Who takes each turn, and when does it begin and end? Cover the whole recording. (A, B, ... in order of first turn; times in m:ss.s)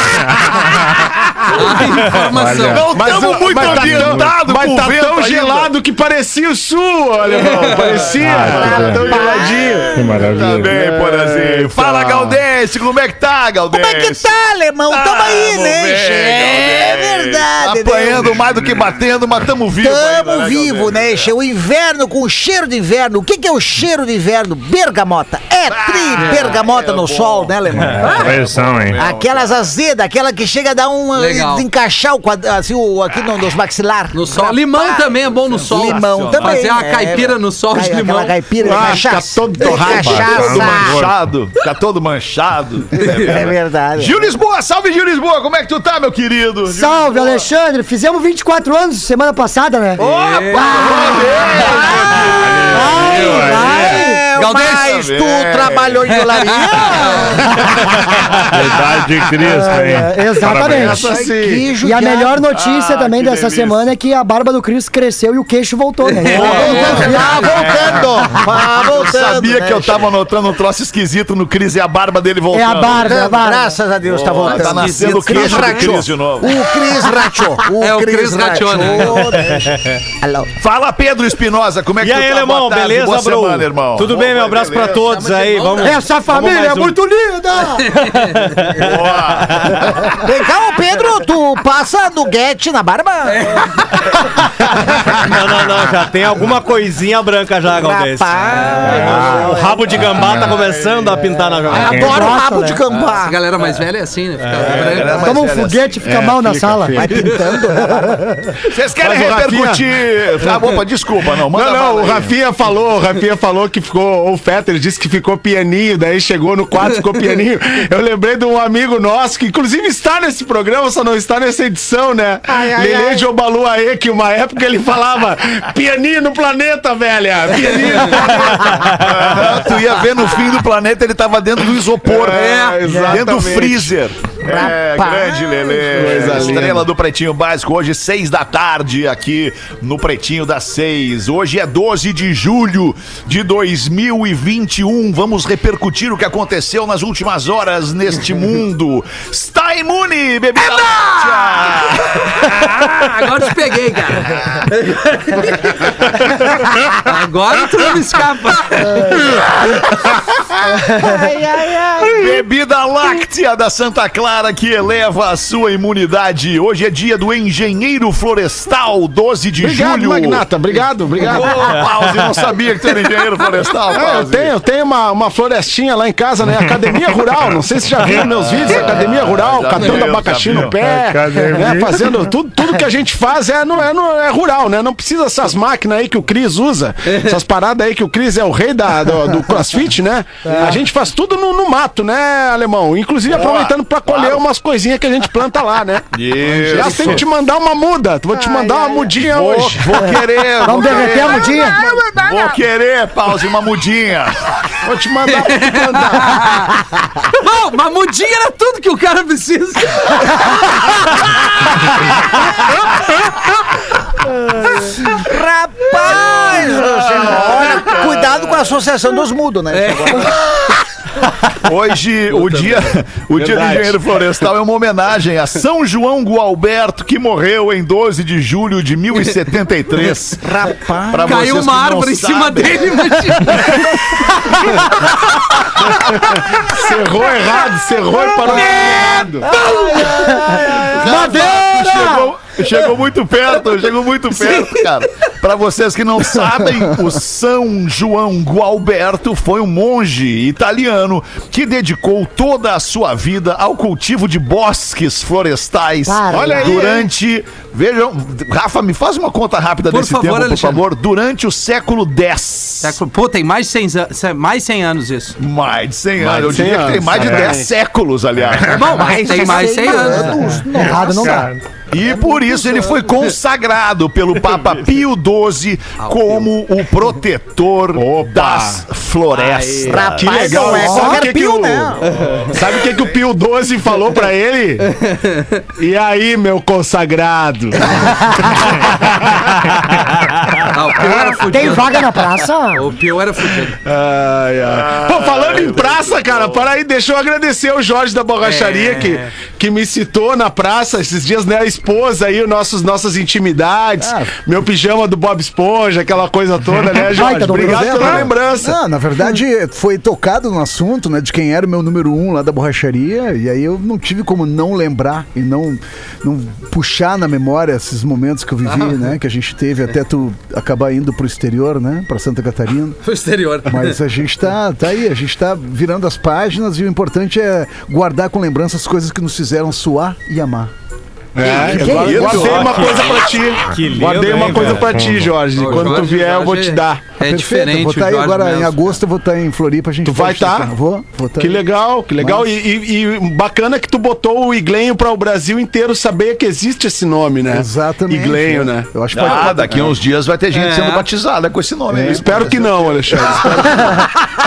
0:00.4-0:00.8 A
0:01.4-0:02.9 B
0:01.9-0:02.9 A
0:02.6-0:05.7 C
0:02.9-0:12.4 D
0:08.2-0:09.2 A
0:08.4-0:10.2 E
0:08.6-0:14.3 C
0:09.9-0:10.7 A
0:13.7-0:18.6 E
0:14.9-0:21.3 C
0:19.7-0:41.0 E
0:25.6-0:29.7 C
0:26.2-0:26.5 B
0:28.0-0:29.0 A
0:28.0-0:28.3 B
0:31.1-0:31.7 B
0:34.1-0:38.3 B
0:35.5-0:36.6 C
0:38.6-0:40.8 D
0:39.9-0:41.2 A
0:40.0-0:47.5 C
0:43.0-0:43.3 B
0:43.2-0:44.3 E
0:46.6-0:54.2 F
0:50.0-0:51.8 B
0:50.0-0:54.0 C
0:50.0-0:52.2 E
0:52.2-0:54.0 A
0:53.1-0:57.4 E
0:54.3-0:55.0 B
0:54.5-0:56.2 C
0:56.0-0:57.5 B
0:57.5-0:57.7 F
0:58.4-1:01.0 A
0:59.3-1:01.2 F
1:00.4-1:01.7 D
1:00.5-1:01.1 C
1:01.0-1:02.4 E
1:01.8-1:08.5 F
1:02.5-1:03.9 C
1:06.0-1:07.5 B
1:06.2-1:08.0 C
1:06.4-1:10.1 E
1:08.5-1:13.3 C
1:12.5-1:13.8 F
1:12.9-1:20.5 E
1:14.0-1:16.6 C
1:14.5-1:16.1 B
1:17.8-1:19.4 B
1:19.7-1:19.9 G
1:20.6-1:25.0 C
1:22.0-1:27.0 G
1:25.0-1:26.0 B
1:25.8-1:28.2 F
1:27.8-1:28.7 B
1:28.2-1:29.7 G
1:28.8-1:30.2 C
1:30.2-1:33.6 E
1:33.2-1:34.2 B
1:35.0-1:42.2 G
1:37.6-1:40.5 E
1:38.8-1:40.7 A
1:41.7-1:43.4 E
1:41.7-1:42.4 A
1:41.8-1:42.8 F
1:43.2-1:45.3 B
1:44.4-1:45.1 G
1:44.5-1:46.1 C
1:45.1-1:48.5 F
1:46.0-1:47.3 D
1:46.9-1:48.2 E
1:48.7-1:52.3 C
1:48.9-1:49.9 D
1:51.4-2:09.5 D
2:02.5-2:03.3 E
2:08.8-2:32.5 C
2:12.0-2:14.0 D
2:12.3-2:12.8 B
2:14.4-2:16.6 E
2:15.9-2:16.9 D
2:30.6-2:39.2 B
2:39.0-2:39.3 F
2:40.8-2:41.2 F
2:41.0-2:42.2 E
2:42.0-2:54.5 C
2:49.6-2:51.9 D
2:51.9-2:52.3 G
2:53.9-3:20.0 D
2:56.5-2:58.2 A
2:58.1-3:00.8 C
3:00.8-3:02.2 A
3:13.3-3:14.4 C
3:16.1-3:17.2 C
3:16.6-3:16.8 H
3:18.7-3:18.9 E
3:19.2-3:24.7 C
3:20.6-3:21.8 F
3:21.1-3:22.5 D
3:24.8-3:26.6 D
3:25.2-3:26.7 B
3:27.2-3:30.8 B
3:35.0-3:40.4 E
3:36.0-3:36.8 B
3:36.2-3:38.2 C
3:37.4-3:38.0 B
3:39.7-3:40.4 B
3:41.6-3:50.5 C
3:43.3-3:44.1 D
3:50.4-3:51.4 E
3:51.1-3:53.8 C
3:51.2-3:56.1 B
3:56.0-3:59.5 D
3:58.5-3:58.8 F
3:58.5-3:58.9 B
3:59.5-4:00.4 B
3:59.5-4:02.4 F
4:00.7-4:01.6 D
4:00.9-4:23.0 C
4:04.3-4:04.8 B
4:16.0-4:16.9 F
4:16.3-4:17.0 D
4:19.9-4:20.8 B
4:22.8-4:25.4 B
4:25.4-4:29.2 C
4:26.2-4:27.7 D
4:27.1-4:27.5 A
4:28.5-4:28.8 A
4:28.6-4:30.6 B
4:28.9-4:31.4 E
4:29.3-4:31.6 F
4:30.7-4:31.6 A
4:31.9-4:41.0 C
4:36.0-4:36.5 B
4:37.9-4:38.8 D
4:39.3-4:40.0 B
4:39.8-4:42.0 E
4:40.0-4:44.9 D
4:40.8-4:41.2 F
4:42.1-4:43.1 C
4:42.1-4:42.5 B
4:44.8-4:45.6 B
4:45.8-4:49.5 D
4:48.0-4:48.7 F
4:50.6-4:53.8 B
4:51.0-4:52.8 F
4:53.8-5:08.8 D
4:54.6-4:56.7 C
4:58.4-4:59.3 B
5:04.0-5:04.3 H
5:07.0-5:08.3 F
5:07.1-5:23.0 H
5:18.6-5:19.1 B
5:23.0-5:24.0 B
5:23.6-5:30.7 H
5:31.3-5:37.1 D
5:31.4-5:33.2 C
5:31.4-5:32.7 H
5:31.8-5:32.2 F
5:32.2-5:35.1 G
5:33.7-5:35.4 A
5:35.5-5:39.0 B
5:37.2-5:41.6 H
5:40.0-5:40.7 D
5:41.4-5:49.3 D
5:42.2-5:42.5 H
5:47.5-5:50.0 H
5:49.1-5:53.5 C
5:50.5-5:51.1 B
5:51.9-5:53.9 H
5:52.0-5:54.1 D